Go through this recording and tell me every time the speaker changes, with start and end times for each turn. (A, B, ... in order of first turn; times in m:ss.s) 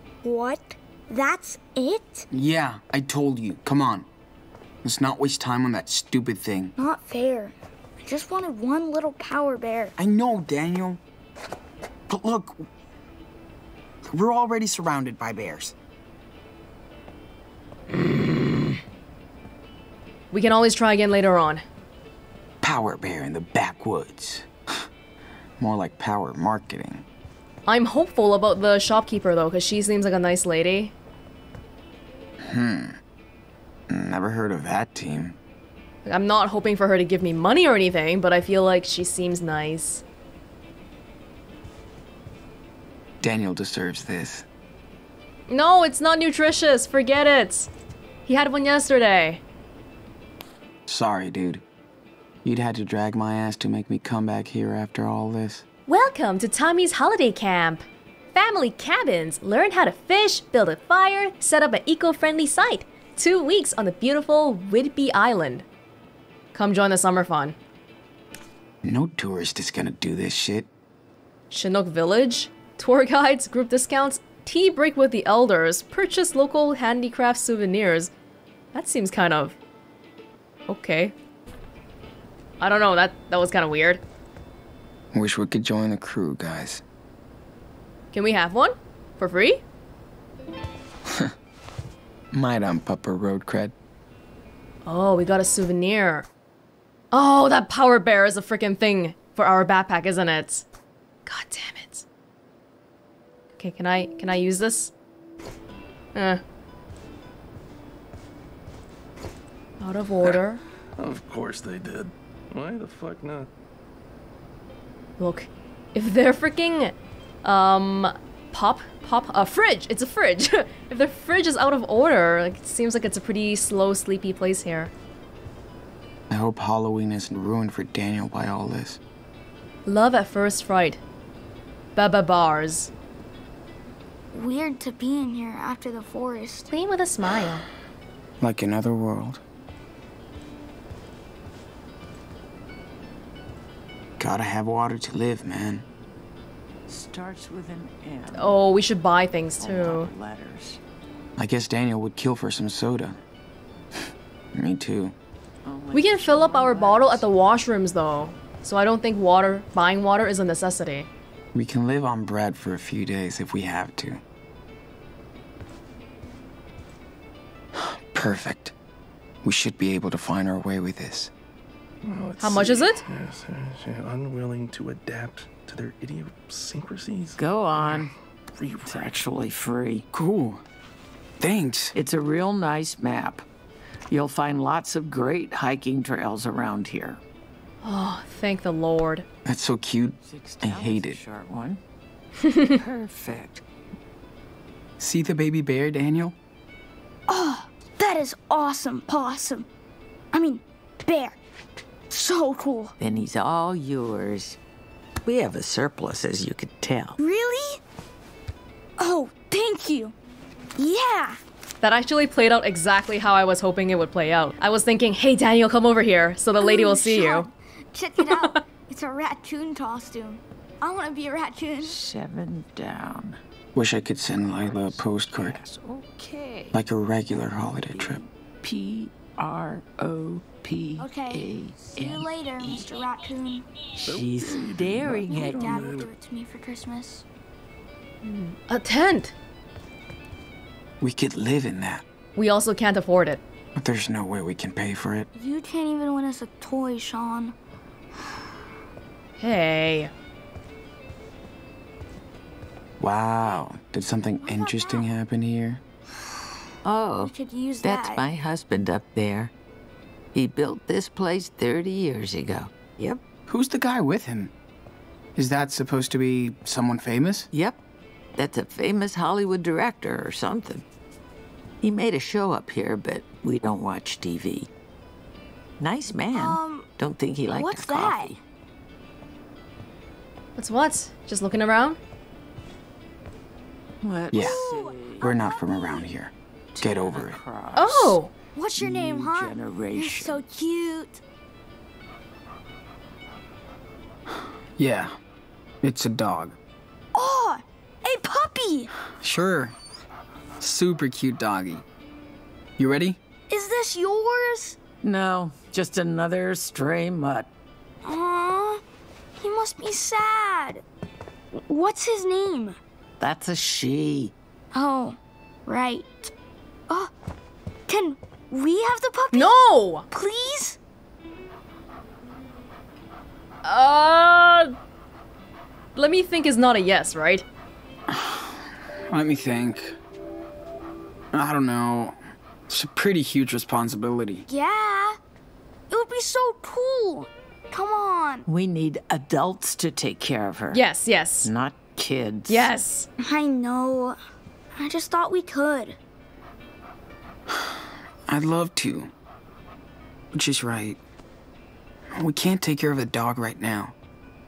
0:00.2-0:02.3 A
0:02.3-0:04.1 B
0:04.8-0:06.7 B
0:06.8-0:09.9 A
0:10.0-0:11.0 B
0:12.1-0:12.7 B
0:14.0-0:15.7 B
0:17.9-0:18.8 C
0:20.3-0:21.6 C
0:22.6-0:24.8 B
0:25.6-0:27.0 B
0:27.7-0:30.9 C
0:32.4-0:33.0 B
0:33.9-0:35.4 B
0:36.0-0:40.0 C
0:43.2-0:44.4 B
0:45.5-0:47.7 C
0:48.2-0:49.4 C
0:50.9-0:51.6 B
0:52.4-0:55.6 B
0:55.9-0:57.8 C
0:58.3-1:05.6 C
1:06.5-1:07.6 C
1:08.8-1:10.7 B
1:11.5-1:18.1 C
1:18.7-1:19.6 C
1:20.7-1:21.1 C
1:22.6-1:24.0 C
1:25.1-1:26.8 B
1:28.1-1:29.6 C
1:31.1-1:31.3 B
1:32.3-1:33.7 B
1:34.8-1:36.3 C
1:37.1-1:40.6 C
1:41.2-1:42.0 C
1:43.6-1:44.9 C
1:46.1-1:46.4 C
1:49.8-1:50.6 C
1:51.0-1:53.5 D
1:55.2-2:04.9 C
2:06.3-2:09.0 B
2:09.8-2:11.0 C
2:12.0-2:12.9 C
2:14.3-2:16.7 A
2:16.7-2:17.6 C
2:18.4-2:19.4 B
2:24.2-2:25.8 B
2:26.9-2:28.6 E
2:28.3-2:30.1 C
2:29.6-2:30.8 E
2:31.4-2:33.2 B
2:34.5-2:35.1 B
2:35.6-2:37.3 E
2:35.9-2:41.1 C
2:41.5-2:44.2 B
2:47.7-2:48.7 B
2:49.4-2:51.3 B
2:52.0-2:59.1 D
2:52.4-2:53.0 C
2:57.4-2:58.1 E
2:58.8-3:00.0 E
3:00.1-3:00.6 B
3:01.4-3:01.9 B
3:01.9-3:03.4 E
3:04.1-3:07.2 E
3:07.8-3:09.2 C
3:09.4-3:11.2 B
3:10.2-3:11.8 E
3:12.4-3:12.8 C
3:12.7-3:13.6 E
3:15.0-3:16.4 B
3:17.3-3:19.7 A
3:20.3-3:21.4 A
3:22.1-3:22.9 A
3:23.0-3:24.6 E
3:25.2-3:27.2 E
3:27.2-3:27.8 A
3:29.0-3:30.1 A
3:30.8-3:31.4 A
3:31.8-3:37.5 C
3:36.6-3:42.0 A
3:38.2-3:38.6 C
3:41.8-3:43.4 E
3:43.7-3:45.6 B
3:44.5-3:46.8 E
3:46.7-3:48.2 B
3:47.6-3:52.9 E
3:51.0-3:53.7 A
3:54.0-3:56.0 E
3:54.0-3:56.1 D
3:55.3-3:57.2 A
3:58.2-3:59.3 C
4:01.0-4:02.0 B
4:02.4-4:03.4 C
4:03.8-4:05.3 B
4:05.3-4:07.5 A
4:09.4-4:10.1 C
4:13.0-4:15.8 B
4:14.4-4:15.1 A
4:16.8-4:19.5 E
4:17.2-4:18.3 A
4:20.3-4:23.2 E
4:23.5-4:24.5 B
4:25.4-4:27.5 B
4:27.5-4:27.8 E
4:28.4-4:30.8 E
4:31.8-4:34.7 E
4:35.8-4:38.4 E
4:36.3-4:36.9 A
4:37.4-4:38.3 A
4:40.6-4:42.0 C
4:44.0-4:45.3 E
4:44.3-4:44.6 B
4:44.3-4:46.0 A
4:45.2-4:47.4 B
4:46.7-4:48.2 E
4:47.7-4:48.3 C
4:48.5-4:51.2 A
4:48.7-4:50.4 E
4:54.8-4:55.1 B
4:55.8-4:56.6 B
4:57.1-4:58.9 A
4:59.2-4:59.8 B
5:00.6-5:01.8 B
5:02.8-5:03.2 B
5:03.5-5:04.8 A
5:05.0-5:07.5 E
5:08.0-5:08.8 A
5:09.4-5:10.8 A
5:11.5-5:12.8 A
5:13.2-5:14.3 E
5:14.7-5:16.3 A
5:17.9-5:19.6 A
5:19.3-5:20.1 C
5:20.1-5:20.8 A
5:23.6-5:24.7 C
5:26.0-5:27.4 C
5:28.1-5:30.0 B
5:31.3-5:32.2 B
5:32.7-5:34.4 B
5:34.5-5:35.2 A
5:35.9-5:38.5 A
5:38.5-5:40.8 E
5:40.7-5:41.5 C
5:41.4-5:42.7 E
5:42.5-5:43.1 C
5:43.2-5:44.2 A
5:44.8-5:46.0 A
5:47.5-5:49.1 B
5:50.3-5:51.0 B
5:52.1-5:53.9 B